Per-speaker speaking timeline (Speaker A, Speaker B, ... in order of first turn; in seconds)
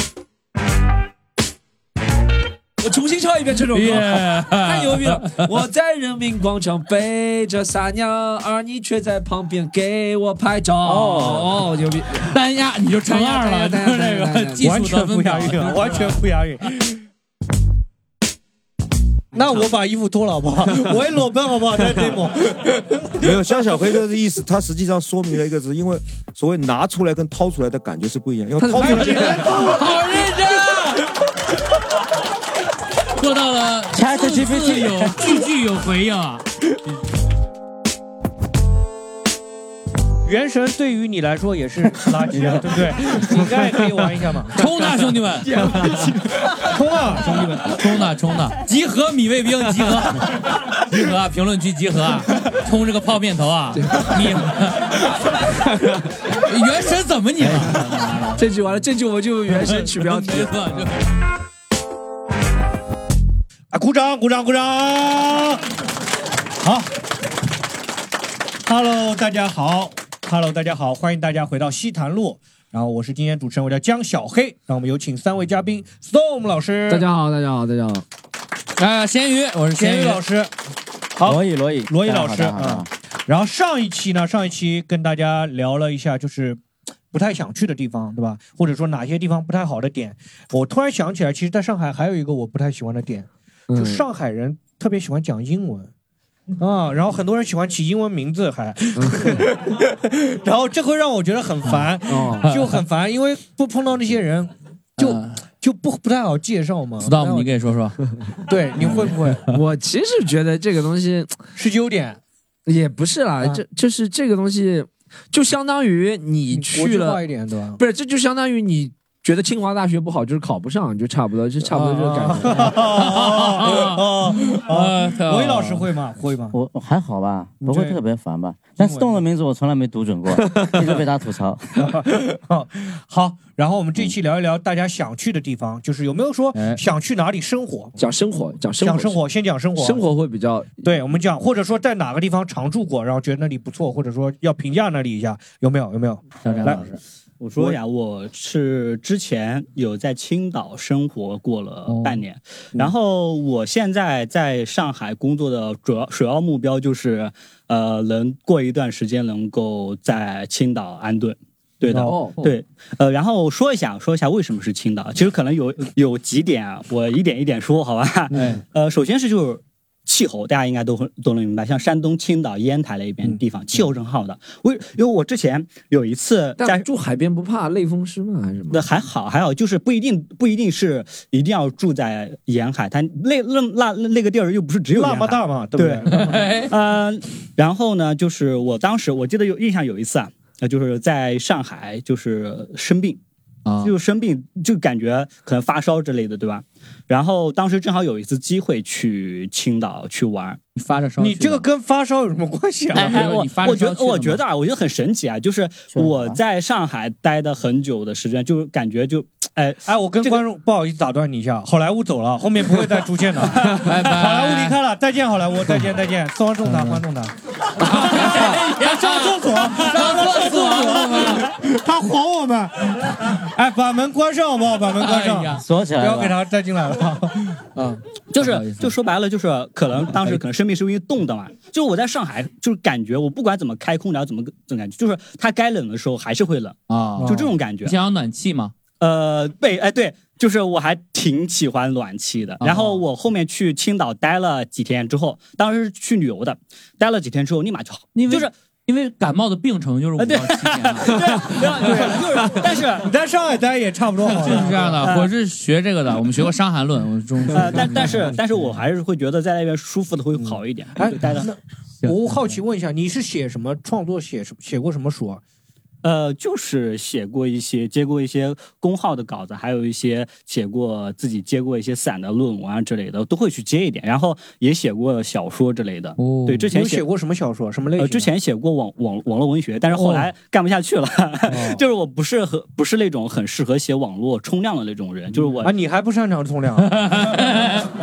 Speaker A: 2.8-12.3, 13.1-14.7, 28.6-29.5, 43.1-44.1, 45.5-46.1, 53.8-54.2, 55.7-56.0, 57.5-60.9, 76.9-78.0, 93.7-94.0, 99.0-99.4, 102.1-102.5, 109.5-111.5, 112.7-117.2, 117.8-122.8, 130.4-130.9, 138.0-139.2, 139.8-140.9, 162.0-162.4, 176.6-178.8
Speaker B: 3.7-5.6, 10.8-11.5, 12.2-16.2, 28.8-31.1, 33.2-36.5, 44.5-46.0, 47.7-55.0, 56.4-58.5, 59.5-61.0, 78.8-80.2, 102.4-102.7, 105.0-105.4, 107.0-108.0, 121.7-125.9, 136.5-136.8, 146.4-147.0, 151.9-152.2, 186.1-186.7, 193.7-193.9, 200.8-201.7, 202.9-204.4, 213.7-214.8, 216.7-217.0, 217.8-221.5, 225.0-225.6, 228.3-229.0, 230.0-230.4, 236.9-238.7, 242.6-243.0, 248.1-252.1, 254.2-258.2, 276.2-276.7, 286.8-287.9
Speaker C: 14.6-16.8, 19.3-23.1, 29.2-29.9, 40.2-44.6, 46.6-47.8, 63.7-65.7, 66.6-66.9, 68.6-77.1, 79.8-80.5, 81.2-86.6, 87.1-95.9, 96.6-107.5, 108.5-109.5, 111.5-112.2, 116.5-117.8, 122.1-126.6, 127.6-128.0, 128.8-129.2, 131.8-138.0, 138.8-140.0, 140.8-146.9, 161.9-162.2, 168.3-168.6, 184.9-186.5, 201.2-203.4, 209.9-228.0, 237.2-237.5, 253.0-255.1, 260.4-265.4, 276.7-278.3, 279.9-280.3, 281.5-281.8, 285.6-287.0
Speaker D: 23.2-29.4
Speaker E: 33.9-35.2, 81.2-82.9, 126.5-131.7, 205.9-206.4, 225.6-226.4
Speaker F: 147.4-176.9, 178.7-193.2, 193.8-200.6, 203.0-210.4, 228.4-237.9, 239.0-248.5, 250.2-253.1, 255.0-255.3, 257.5-261.5, 266.0-277.0, 278.0-285.7